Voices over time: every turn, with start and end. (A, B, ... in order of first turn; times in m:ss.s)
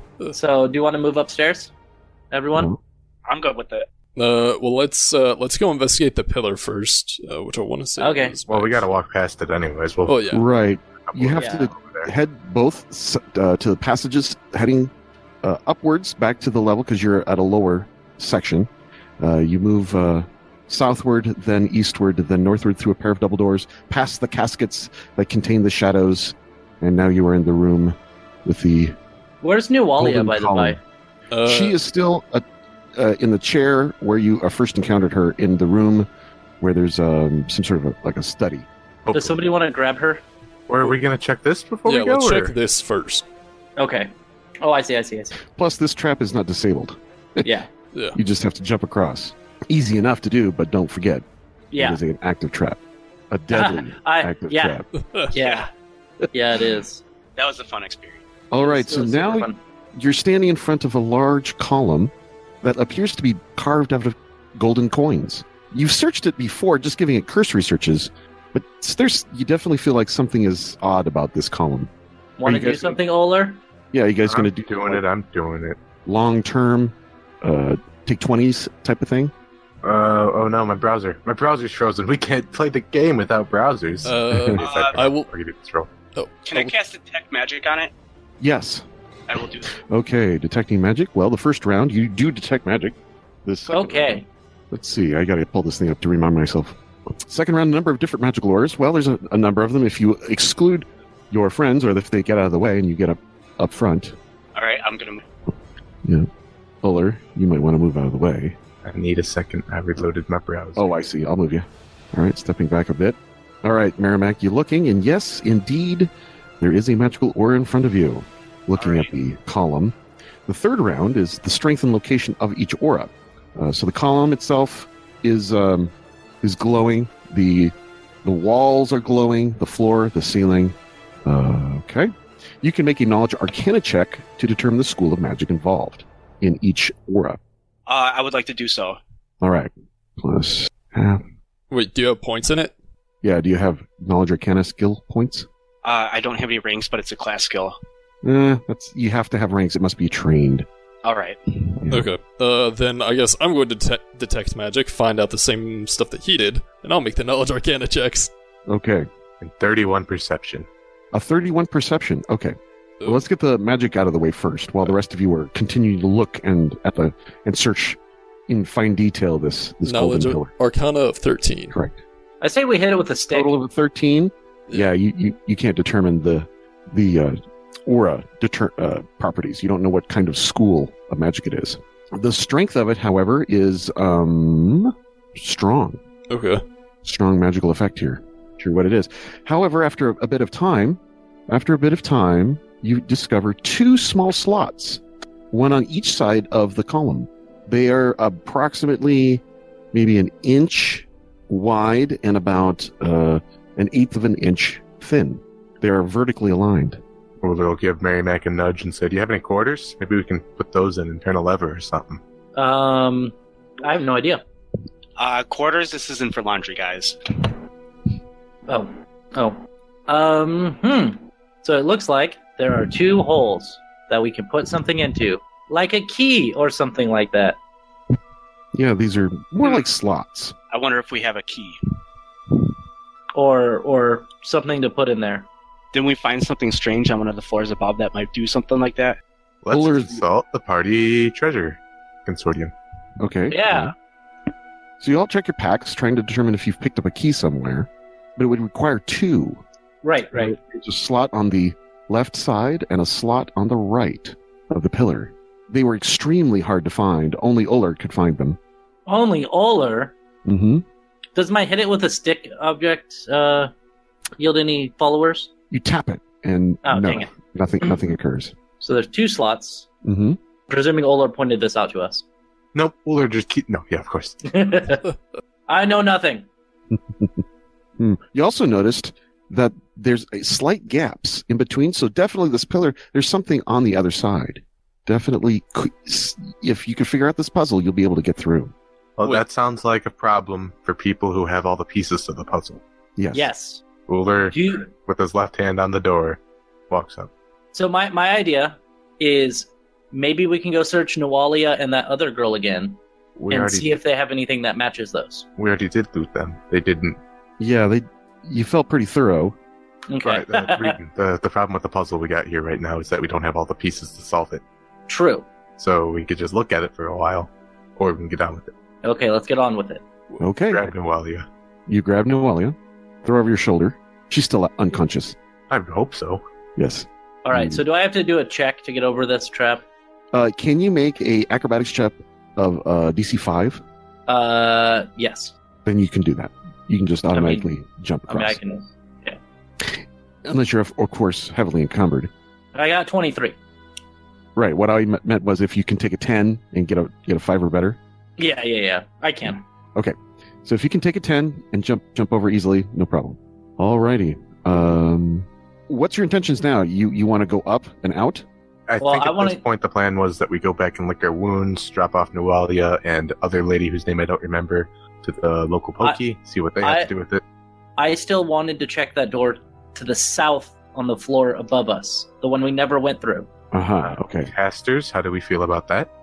0:00.3-0:01.7 A
0:02.3-0:02.7 A
0:03.3-0:03.9 B
0:04.2-0:08.9 C
0:08.0-0:08.4 A
0:08.5-0:10.2 D
0:10.1-0:10.4 C
0:10.3-0:18.7 E
0:11.0-0:12.1 D
0:11.4-0:11.7 A
0:19.2-0:29.0 E
0:29.4-0:30.8 A
0:30.0-0:30.8 E
0:31.3-0:31.8 C
0:31.5-0:32.4 E
0:33.0-0:36.1 E
0:36.6-0:38.7 E
0:39.1-0:39.4 D
0:39.1-0:40.2 A
0:40.7-0:42.5 D
0:41.9-0:43.2 C
0:43.8-0:45.4 A
0:45.5-0:47.5 E
0:47.4-0:47.7 A
0:47.9-0:48.2 C
0:48.2-0:51.2 E
0:51.7-0:52.0 A
0:51.8-0:54.9 E
0:53.5-0:54.8 A
0:55.0-0:55.3 C
0:55.3-0:55.7 B
0:55.3-0:55.7 A
0:56.3-0:57.0 A
0:57.4-0:58.2 B
0:58.5-1:11.9 E
0:58.6-0:59.6 A
1:12.4-1:13.6 A
1:12.4-1:13.0 E
1:13.9-1:15.0 E
1:14.3-1:15.8 D
1:16.0-1:19.3 E
1:19.8-1:25.9 D
1:24.0-1:25.3 C
1:24.3-1:24.6 E
1:24.6-1:25.1 B
1:26.2-1:26.7 C
1:26.4-1:27.9 B
1:28.4-1:28.8 E
1:29.3-1:29.7 B
1:29.7-1:44.2 E
1:33.7-1:34.3 A
1:44.6-1:45.2 B
1:46.8-1:48.6 E
1:48.8-1:50.9 D
1:50.8-2:17.4 E
1:58.8-1:59.1 B
2:17.9-2:19.0 B
2:19.4-2:21.2 E
2:21.7-2:22.7 C
2:23.2-2:25.5 E
2:25.8-2:27.8 B
2:28.2-2:30.7 E
2:31.0-2:31.7 B
2:31.8-2:32.1 E
2:31.9-2:38.3 C
2:38.7-2:39.1 E
2:39.4-2:40.7 D
2:41.1-2:50.5 E
2:49.8-2:51.8 C
2:51.7-2:52.0 E
2:52.4-2:53.6 A
2:53.3-3:06.0 E
3:06.3-3:06.6 C
3:07.0-3:19.4 E
3:19.9-3:27.0 E
3:27.4-3:32.2 D
3:32.6-3:34.4 A
3:35.2-3:37.5 B
3:38.7-3:47.6 A
3:48.7-3:50.6 E
3:50.7-3:51.8 B
3:53.3-3:55.5 A
3:55.9-3:59.2 B
3:59.6-4:02.7 D
3:59.7-4:00.2 E
4:03.2-4:03.9 E
4:03.5-4:03.9 A
4:05.0-4:09.6 E
4:10.0-4:10.6 A
4:10.3-4:18.6 E
4:19.1-4:20.1 A
4:20.4-4:20.8 E
4:21.4-4:23.7 A
4:24.4-4:25.5 A
4:25.7-4:28.5 E
4:26.8-4:27.3 A
4:28.8-4:29.9 A
4:30.0-4:30.4 E
4:30.7-4:32.2 A
4:32.7-4:34.4 D
4:34.4-4:35.1 A
4:35.7-4:36.5 A
4:36.9-4:37.4 E
4:38.0-4:48.7 E
4:49.2-4:52.8 D
4:53.2-4:53.5 E
4:53.3-4:53.8 A
4:54.1-4:57.3 D
4:54.5-4:54.9 A
4:57.7-5:03.0 A
5:03.4-5:03.9 D
5:03.5-5:05.5 A
5:05.6-5:07.2 D
5:07.6-5:09.6 E
5:10.1-5:11.0 A
5:10.2-5:14.6 D
5:15.1-5:15.5 A
5:15.8-5:18.7 D
5:19.0-5:20.0 A
5:20.4-5:20.9 E
5:20.7-5:21.5 D
5:21.9-5:25.4 E
5:25.7-5:26.4 D
5:26.8-5:27.8 E
5:27.4-5:29.8 A
5:30.3-5:33.8 E
5:34.3-5:35.5 A
5:35.8-5:38.6 E
5:37.3-5:37.7 A
5:38.3-5:39.4 A
5:39.8-5:42.3 E
5:42.7-5:43.6 A
5:44.6-5:48.0 E
5:48.4-5:49.6 A
5:50.0-5:58.5 E
5:58.9-6:07.4 D
5:59.0-5:59.6 A
6:06.8-6:07.1 A
6:08.0-6:13.5 A
6:13.7-6:14.5 E
6:14.0-6:16.1 D